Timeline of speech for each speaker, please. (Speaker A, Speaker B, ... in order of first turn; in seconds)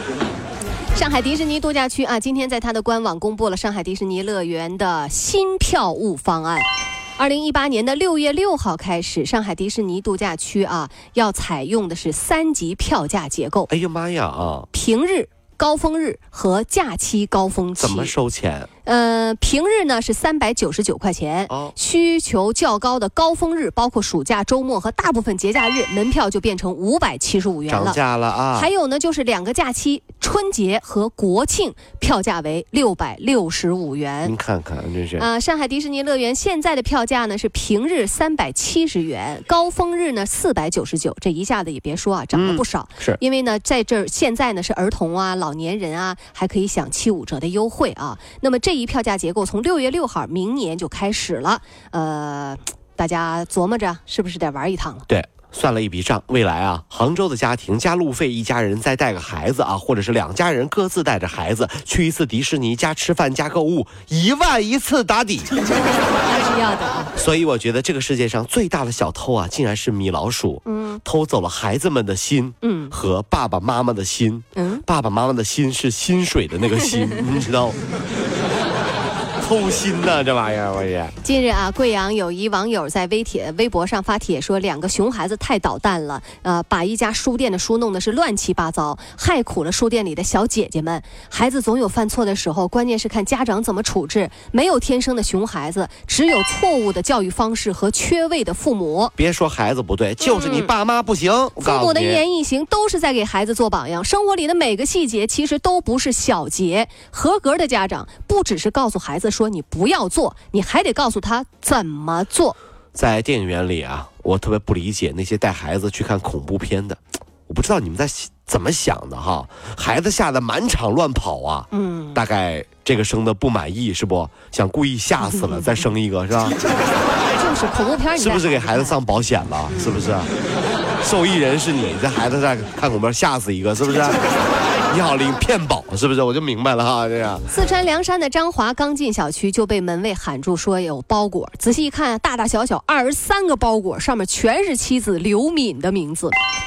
Speaker A: 0.9-13.7, 14.7-18.1, 18.8-28.0, 28.5-34.4, 35.2-55.1, 65.7-67.1, 70.7-71.0, 72.6-72.9, 74.5-74.8, 81.2-99.1, 100.2-100.7, 101.6-112.6, 121.7-122.2, 125.2-125.8, 127.4-129.0, 129.7-130.0, 137.5-146.4
Speaker B: 13.7-14.7, 17.8-18.7, 21.5-21.8, 27.7-28.7, 34.2-35.3, 42.3-43.2, 55.1-65.5, 67.2-77.8, 79.4-81.2, 99.2-102.2, 112.9-126.6, 128.2-130.3, 131.0-134.2, 134.9-137.4